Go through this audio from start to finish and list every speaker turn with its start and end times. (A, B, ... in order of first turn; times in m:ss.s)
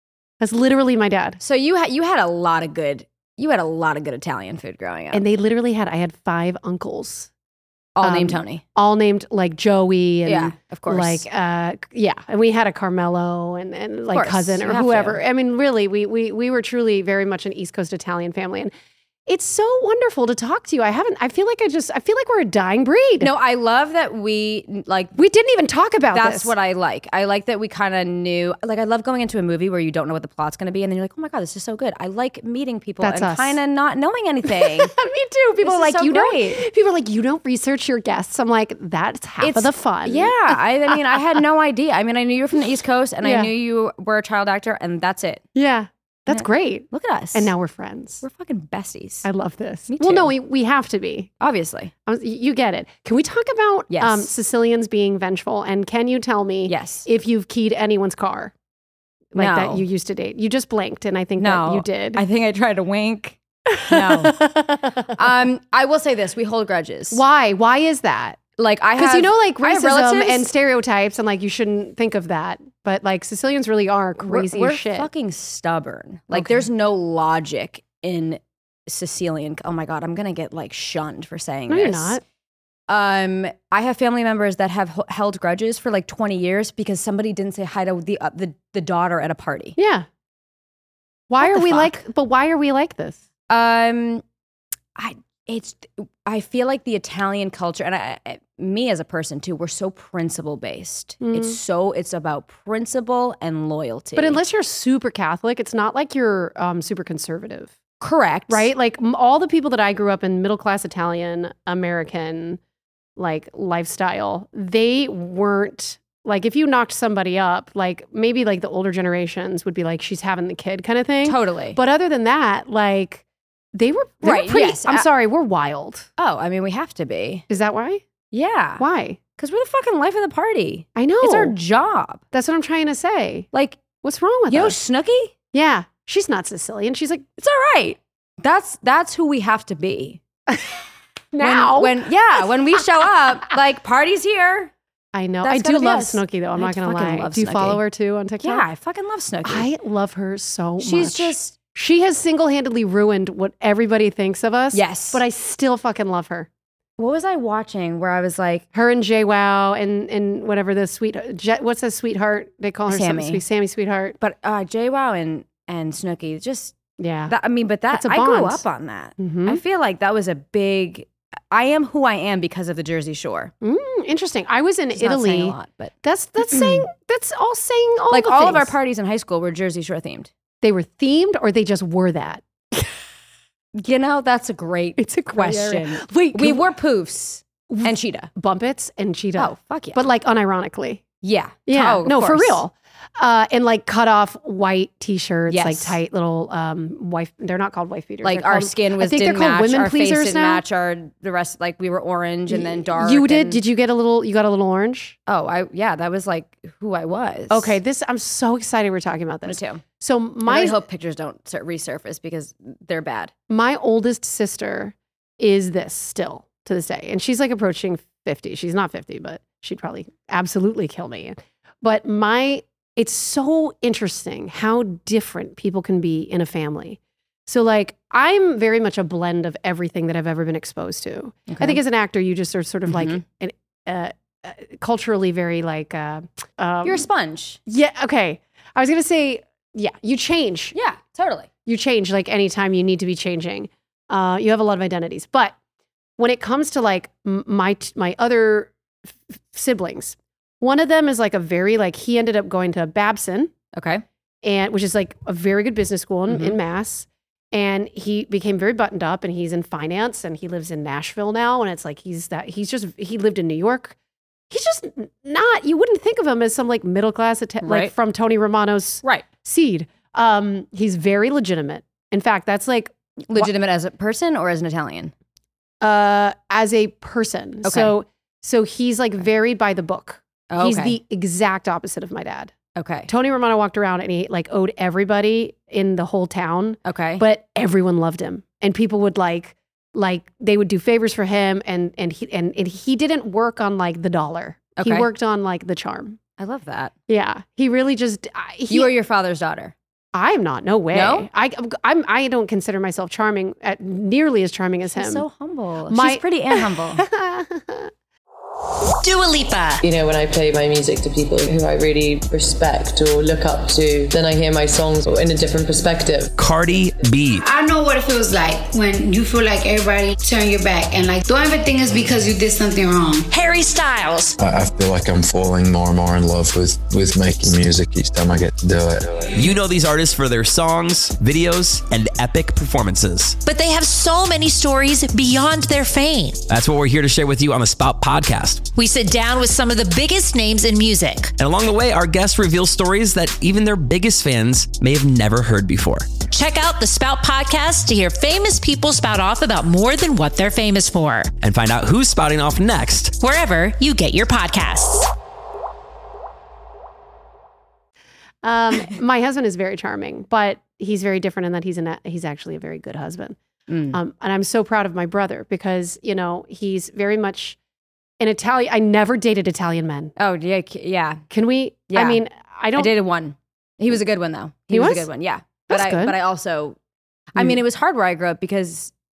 0:00.4-0:01.4 A
0:01.4-0:05.2 B
0:05.1-0:07.3 A
0:08.0-0:08.6 B
0:08.0-0:18.7 A
0:10.3-0:11.3 B
0:14.1-0:15.2 B
0:19.3-0:23.3 A
0:23.2-0:25.2 B
0:25.2-0:26.5 A
0:26.1-0:35.0 B
0:33.0-0:33.6 A
0:34.5-0:40.3 A
0:35.6-0:36.6 B
0:39.4-0:45.4 B
0:40.9-0:41.2 A
0:43.2-0:43.5 A
0:45.6-0:48.2 A
0:46.3-0:47.5 B
0:48.2-0:49.3 B
0:49.2-0:51.3 A
0:49.9-0:50.3 B
0:51.4-0:51.9 B
0:52.1-0:58.5 A
0:53.9-0:54.3 B
0:56.7-0:57.1 B
0:59.3-1:02.2 A
0:59.4-0:59.8 B
1:01.4-1:07.2 B
1:03.7-1:05.2 A
1:07.1-1:08.4 A
1:08.6-1:10.5 B
1:09.0-1:15.1 A
1:14.2-1:22.2 B
1:16.3-1:16.7 A
1:21.7-1:22.2 A
1:22.9-1:29.8 B
1:29.8-1:30.1 A
1:31.3-1:33.2 A
1:31.4-1:32.0 B
1:33.5-1:34.2 B
1:35.0-1:44.4 B
1:41.2-1:41.6 A
1:44.2-1:47.8 A
1:48.0-1:48.7 B
1:48.5-1:52.6 A
1:53.2-2:06.1 A
2:01.2-2:01.8 B
2:04.2-2:05.0 B
2:06.2-2:07.4 B
2:07.5-2:08.0 A
2:08.3-2:08.8 B
2:08.8-2:09.2 A
2:09.4-2:12.2 B
2:11.0-2:11.6 A
2:12.3-2:13.5 A
2:13.5-2:13.8 B
2:14.0-2:14.8 A
2:14.5-2:15.3 B
2:15.5-2:17.3 A
2:17.4-2:20.2 B
2:20.5-2:20.8 A
2:21.3-2:22.8 A
2:21.4-2:24.7 B
2:25.1-2:28.6 A
2:25.4-2:27.8 B
2:28.4-2:29.7 B
2:29.4-2:36.5 A
2:30.8-2:31.5 B
2:34.7-2:35.2 B
2:37.0-2:38.7 B
2:38.7-2:44.2 A
2:42.9-2:43.4 B
2:44.2-2:46.8 B
2:47.0-2:47.4 A
2:47.3-2:53.5 B
2:47.9-2:48.6 A
2:49.2-2:49.6 A
2:53.6-2:58.7 A
2:54.9-2:56.9 B
2:58.1-3:00.3 B
3:00.6-3:02.9 A
3:03.8-3:08.3 B
3:05.0-3:06.6 A
3:07.7-3:11.0 A
3:09.4-3:10.1 B
3:11.2-3:12.6 B
3:11.7-3:20.6 A
3:15.5-3:16.0 B
3:18.2-3:23.6 B
3:22.5-3:25.2 A
3:25.3-3:27.8 B
3:27.5-3:30.8 A
3:29.5-3:29.8 B
3:30.4-3:33.3 B
3:33.5-3:57.1 A
3:51.5-3:51.8 B
3:52.9-3:53.2 B
3:56.8-3:57.6 B
3:57.7-4:00.8 A
4:00.7-4:01.5 B
4:01.7-4:05.6 A
4:06.2-4:08.7 A
4:09.4-4:13.5 A
4:13.7-4:14.0 B
4:14.4-4:24.0 A
4:16.3-4:16.6 B
4:24.5-4:33.5 A
4:27.6-4:27.9 B
4:33.3-4:35.1 B
4:35.8-4:42.6 A
4:37.6-4:38.0 B
4:40.5-4:41.0 B
4:42.8-4:43.1 B
4:43.1-4:56.2 A
4:46.8-4:47.2 B
4:54.8-4:55.1 B
4:56.4-4:56.9 B
4:57.1-4:58.9 A
4:58.7-4:59.7 B
5:00.1-5:05.3 A
5:00.9-5:01.3 B
5:04.9-5:07.0 B
5:05.9-5:07.9 A
5:09.0-5:09.8 C
5:09.8-5:16.3 D
5:16.4-5:17.4 E
5:17.4-5:23.3 F
5:23.3-5:24.4 C
5:24.4-5:29.5 G
5:29.4-5:33.4 E
5:33.4-5:36.4 C
5:36.5-5:38.7 E
5:38.8-5:41.3 C
5:41.4-5:46.1 E
5:46.3-5:51.3 C
5:51.4-5:53.2 E
5:53.2-5:55.1 C
5:58.4-6:03.4 A
6:03.7-6:04.0 B
6:03.9-6:07.6 A
6:08.2-6:10.2 A
6:10.2-6:11.2 B
6:11.3-6:12.9 A
6:11.9-6:12.2 B
6:12.8-6:16.8 B
6:14.7-6:15.1 A
6:15.7-6:16.2 A
6:17.4-6:18.9 B